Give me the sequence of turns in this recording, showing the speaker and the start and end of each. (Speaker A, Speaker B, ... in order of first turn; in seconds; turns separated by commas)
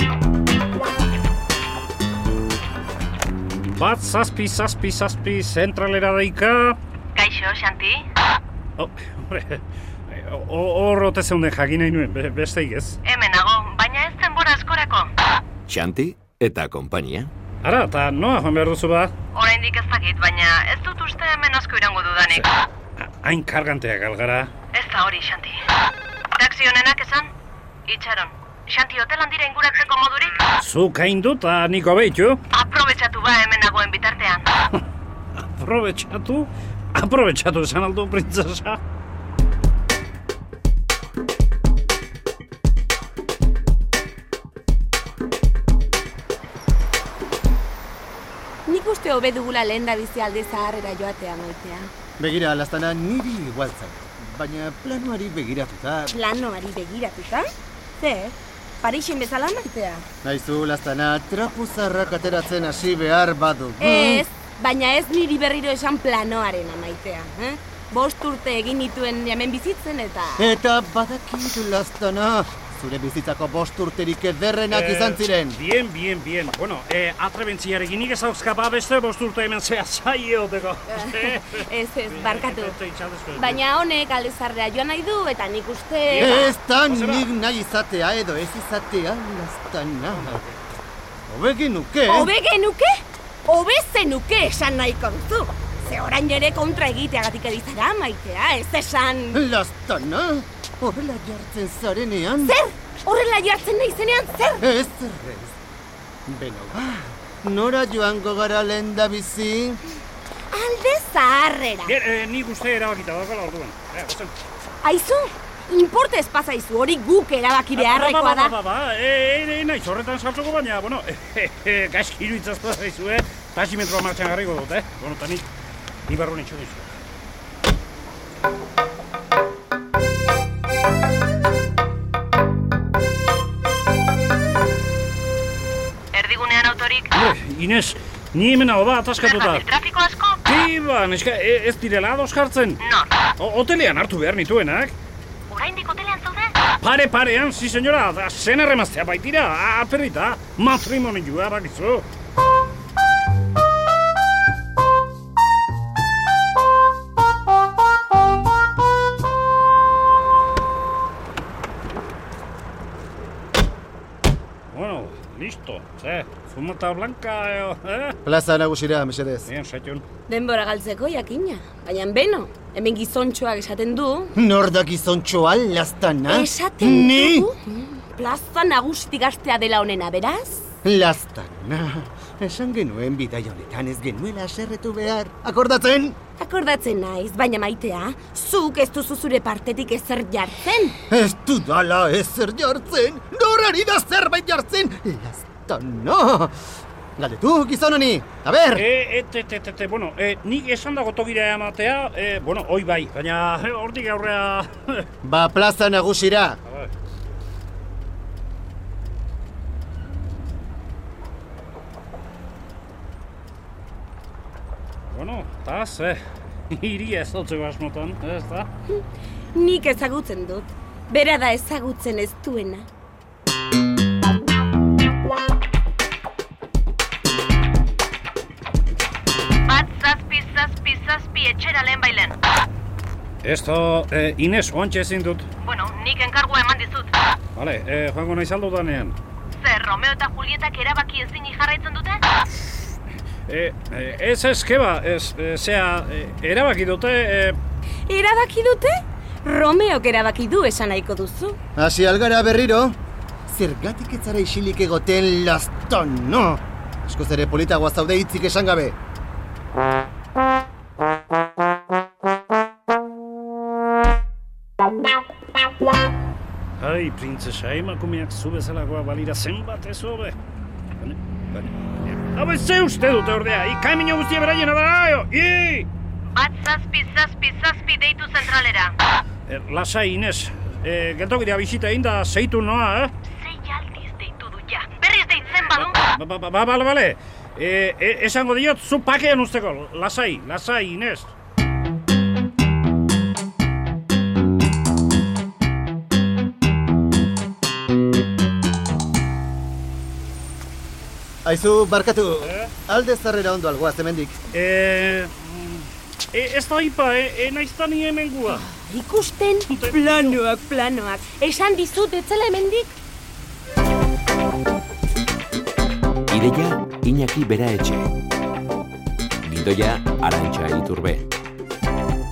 Speaker A: 3.8-6.8, Speaker B: 7.1-8.0, Speaker A: 8.8-13.0, Speaker B: 13.0-15.1, Speaker C: 15.7-17.3, Speaker A: 17.6-19.1, Speaker B: 19.3-22.5, Speaker A: 23.0-24.5, Speaker B: 24.7-25.6, Speaker B: 26.3-27.3, Speaker B: 27.9-30.4, Speaker A: 30.6-32.4, Speaker B: 32.5-34.5, Speaker A: 35.4-38.8, Speaker D: 48.6-51.9, Speaker E: 52.2-56.1, Speaker D: 56.1-60.0, Speaker E: 60.2-64.2, Speaker D: 63.8-70.5, Speaker E: 70.4-75.6, Speaker A: 74.7-83.6, Speaker D: 80.9-82.8, Speaker D: 83.3-86.5, Speaker A: 86.1-87.3, Speaker E: 86.2-90.4, Speaker A: 90.2-90.5, Speaker E: 91.3-92.3, Speaker D: 92.1-99.4, Speaker E: 99.3-102.6, Speaker D: 102.4-104.7, Speaker E: 104.6-105.5, Speaker E: 106.3-109.8, Speaker D: 110.5-111.9, Speaker A: 111.8-114.3, Speaker D: 114.8-118.5, Speaker A: 117.7-125.5, Speaker A: 126.1-126.9, Speaker B: 136.1-137.1, Speaker A: 137.1-139.6, Speaker B: 139.2-140.4, Speaker A: 140.4-142.8, Speaker B: 142.8-143.2, Speaker A: 143.4-144.9, Speaker B: 145.5-146.5, Speaker A: 146.8-152.1, Speaker A: 164.7-168.2, Speaker E: 168.2-169.5, Speaker A: 169.4-170.0, Speaker D: 170.3-174.3, Speaker E: 174.3-177.5, Speaker D: 176.3-180.6, Speaker E: 180.8-186.2, Speaker D: 186.4-191.0, Speaker E: 191.1-196.6, Speaker E: 197.2-198.8, Speaker A: 198.7-205.1, Speaker E: 205.2-206.6, Speaker A: 215.1-218.7, Speaker D: 219.5-222.8, Speaker B: 229.7-232.3, Speaker A: 233.4-235.5, Speaker B: 235.6-237.1, Speaker A: 237.5-239.2, Speaker B: 239.6-242.2, Speaker A: 243.5-247.6, Speaker D: 248.1-251.6, Speaker E: 251.8-259.0, Speaker A: 266.8-270.4, Speaker A: 271.0-275.9, Speaker B: 276.3-278.9, Speaker A: 279.5-283.1, Speaker B: 283.4-286.0, Speaker A: 285.7-291.3, Speaker E: 301.4-304.4, Speaker A: 302.4-302.7, Speaker A: 304.5-308.7, Speaker D: 308.5-312.9, Speaker A: 309.7-310.4, Speaker C: 316.3-318.1, Speaker C: 319.4-321.3